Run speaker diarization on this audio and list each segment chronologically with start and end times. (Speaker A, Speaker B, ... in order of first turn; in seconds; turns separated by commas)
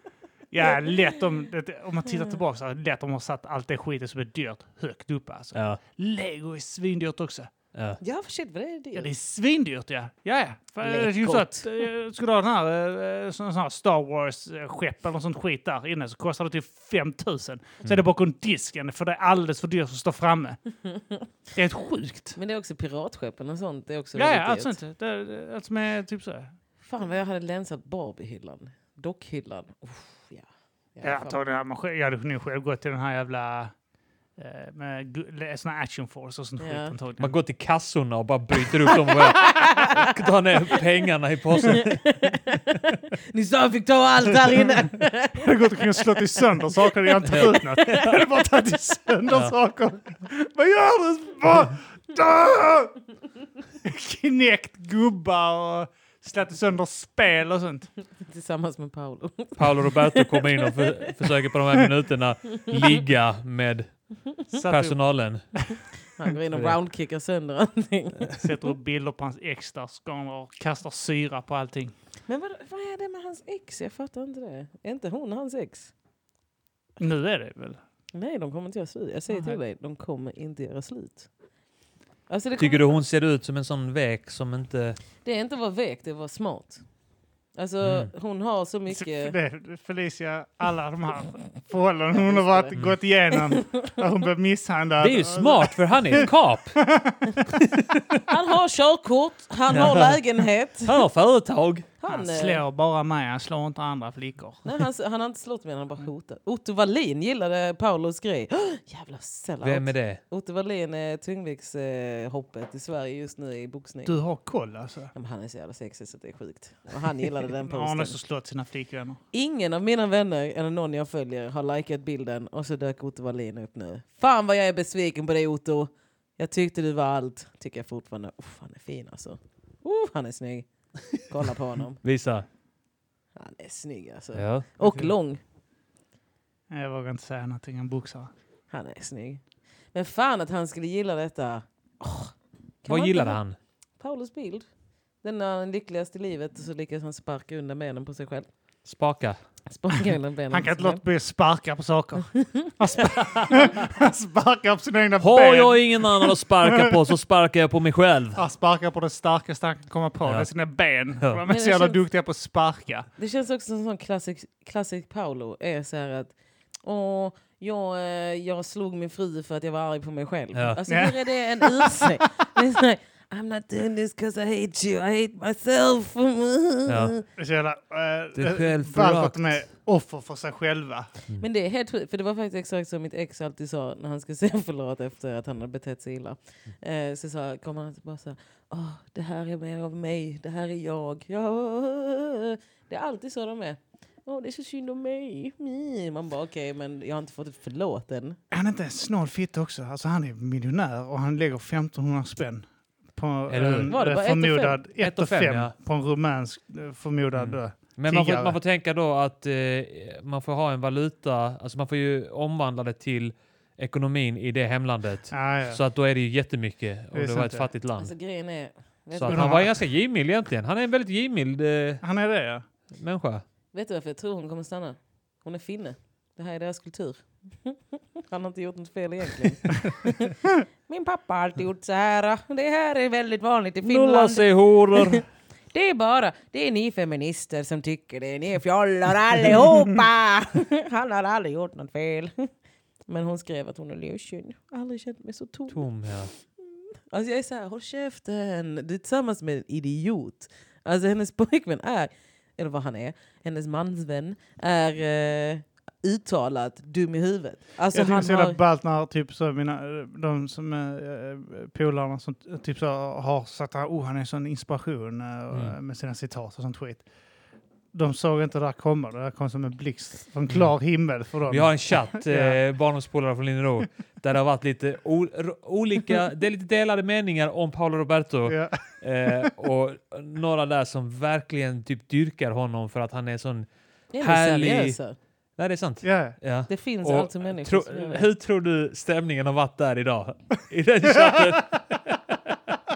Speaker A: 0.5-7.5, Speaker B: 5.5-5.8, Speaker C: 8.0-9.1, Speaker A: 9.0-20.6, Speaker C: 10.8-11.7, Speaker A: 21.6-22.4, Speaker C: 22.4-24.8, Speaker A: 24.1-26.5, Speaker C: 26.8-31.4, Speaker A: 31.0-33.7, Speaker A: 34.4-37.4, Speaker C: 36.6-37.0, Speaker B: 37.2-42.2, Speaker C: 39.3-40.1, Speaker C: 41.6-45.8, Speaker A: 45.4-53.0, Speaker C: 47.1-48.1, Speaker B: 47.3-47.6, Speaker A: 53.8-57.9, Speaker C: 58.2-61.1, Speaker B: 59.6-64.0, Speaker A: 64.5-65.0, Speaker B: 64.6-65.4, Speaker C: 66.2-68.4, Speaker A: 68.4-71.9, Speaker C: 72.3-75.9, Speaker A: 77.0-77.8, Speaker C: 78.1-81.3, Speaker A: 79.3-79.6, Speaker C: 82.3-82.9, Speaker B: 82.6-85.0, Speaker C: 85.2-86.8, Speaker C: 87.6-89.4, Speaker B: 87.8-88.1, Speaker A: 88.9-97.6, Speaker C: 92.1-92.8, Speaker C: 93.3-94.0, Speaker B: 95.0-96.8, Speaker B: 97.8-98.2, Speaker C: 98.3-101.0, Speaker B: 99.7-100.2, Speaker B: 100.8-101.9, Speaker C: 102.0-102.6, Speaker A: 102.1-104.7, Speaker C: 104.6-114.2, Speaker B: 109.6-110.2, Speaker A: 114.0-115.1, Speaker C: 115.1-118.2, Speaker A: 117.6-119.2, Speaker C: 119.3-132.0, Speaker B: 132.0-132.5, Speaker C: 133.4-135.4, Speaker B: 134.3-134.9, Speaker A: 136.7-138.3, Speaker C: 138.7-139.4, Speaker C: 139.9-143.4, Speaker B: 142.9-143.6, Speaker C: 144.0-144.7, Speaker C: 145.2-148.5, Speaker B: 148.8-149.4, Speaker C: 149.7-151.0, Speaker A: 150.5-156.9, Speaker C: 152.3-152.7, Speaker B: 155.2-158.4, Speaker A: 158.3-163.1, Speaker C: 161.5-162.0, Speaker C: 163.2-177.2, Speaker A: 170.9-172.2, Speaker B: 176.9-177.2, Speaker A: 177.4-181.1, Speaker B: 178.3-179.4, Speaker C: 181.4-198.4, Speaker A: 198.5-208.6, Speaker B: 203.5-203.9, Speaker C: 203.9-204.8, Speaker B: 205.0-205.7, Speaker B: 207.4-218.1, Speaker A: 215.3-215.8, Speaker A: 217.1-217.7, Speaker C: 218.0-219.6, Speaker B: 219.1-222.0, Speaker A: 219.3-219.7, Speaker A: 222.0-222.7, Speaker B: 223.0-223.4, Speaker C: 223.7-230.3, Speaker C: 230.9-242.5, Speaker B: 233.8-235.2, Speaker C: 243.1-245.9, Speaker B: 245.7-246.3, Speaker C: 246.7-258.6, Speaker A: 257.9-267.0, Speaker B: 265.5-265.8, Speaker A: 267.9-272.6, Speaker B: 271.5-283.7, Speaker A: 278.5-278.8, Speaker C: 284.1-285.2, Speaker B: 284.2-285.0, Speaker B: 285.6-292.6, Speaker A: 286.0-286.4, Speaker C: 286.7-288.3, Speaker A: 291.1-291.6